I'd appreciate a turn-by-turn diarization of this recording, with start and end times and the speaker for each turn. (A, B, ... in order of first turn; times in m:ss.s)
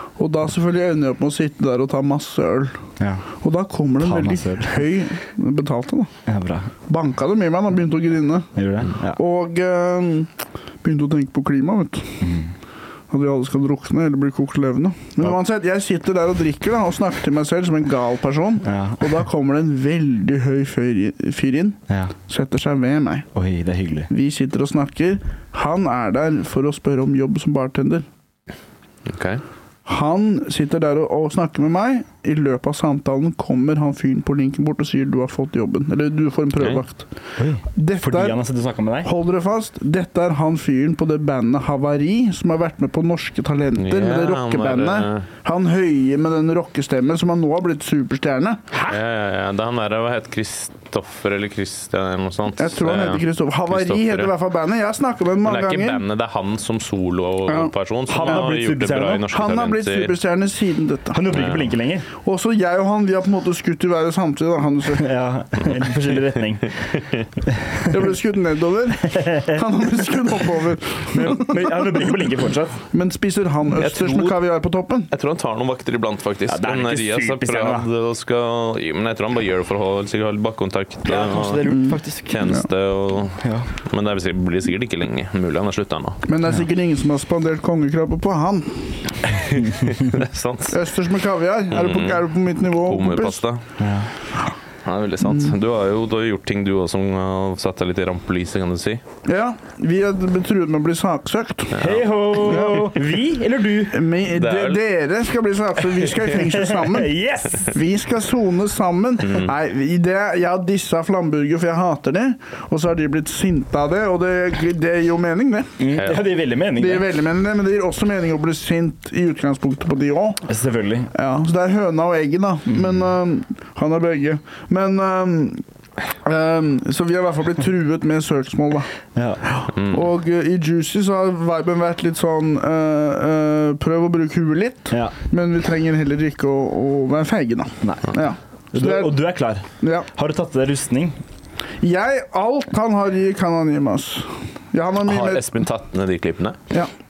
0:00.2-0:02.8 A
0:03.0-0:03.2 B
0:03.4-0:06.1 A
0:04.0-0:04.8 B
0:06.3-0:06.7 B
0:06.9-0:08.5 A
0:08.6-0:09.2 B
0:09.2-0:10.3 A
0:10.8-0:12.2 A
0:12.2-0:12.5 B
0:13.1-0:23.3 A
0:18.6-0:19.2 B
0:23.4-0:24.1 B
0:24.1-0:28.1 A
0:29.1-0:29.4 C
0:29.9-0:37.1 A
0:37.4-0:39.1 B
0:37.7-0:38.4 A
0:39.0-0:48.7 A
0:43.8-0:45.3 C
0:48.8-0:54.3 C
0:52.6-0:56.0 A
0:55.4-1:00.2 C
0:57.5-0:57.7 A
0:58.1-0:59.2 B
0:59.3-1:01.3 A
1:01.1-1:02.1 B
1:01.3-1:01.7 C
1:02.2-1:05.1 A
1:05.0-1:07.0 B
1:07.6-1:07.9 B
1:07.9-1:12.1 A
1:09.2-1:09.4 B
1:11.1-1:12.8 B
1:12.9-1:15.1 A
1:13.7-1:14.4 C
1:15.1-1:26.2 C
1:16.5-1:17.9 B
1:21.0-1:22.4 B
1:21.7-1:22.6 A
1:23.4-1:23.7 B
1:26.3-1:29.0 A
1:29.4-1:30.8 C
1:29.6-1:29.9 B
1:30.7-1:33.4 A
1:31.7-1:33.6 C
1:33.8-1:34.1 B
1:34.8-1:39.0 C
1:39.2-1:41.8 A
1:41.7-1:42.1 C
1:41.8-1:44.0 B
1:42.5-1:42.9 A
1:43.9-1:55.7 A
1:44.3-1:44.8 C
1:46.3-1:47.8 B
1:55.8-1:57.1 B
1:56.0-1:56.2 C
1:56.8-2:00.4 A
2:00.5-2:01.1 B
2:01.1-2:05.6 A
2:02.7-2:03.0 B
2:06.2-2:08.9 A
2:09.2-2:09.4 B
2:09.4-2:19.2 A
2:09.7-2:10.0 C
2:17.8-2:18.1 B
2:18.7-2:21.2 B
2:19.8-2:20.1 A
2:21.8-2:25.5 A
2:25.0-2:26.6 C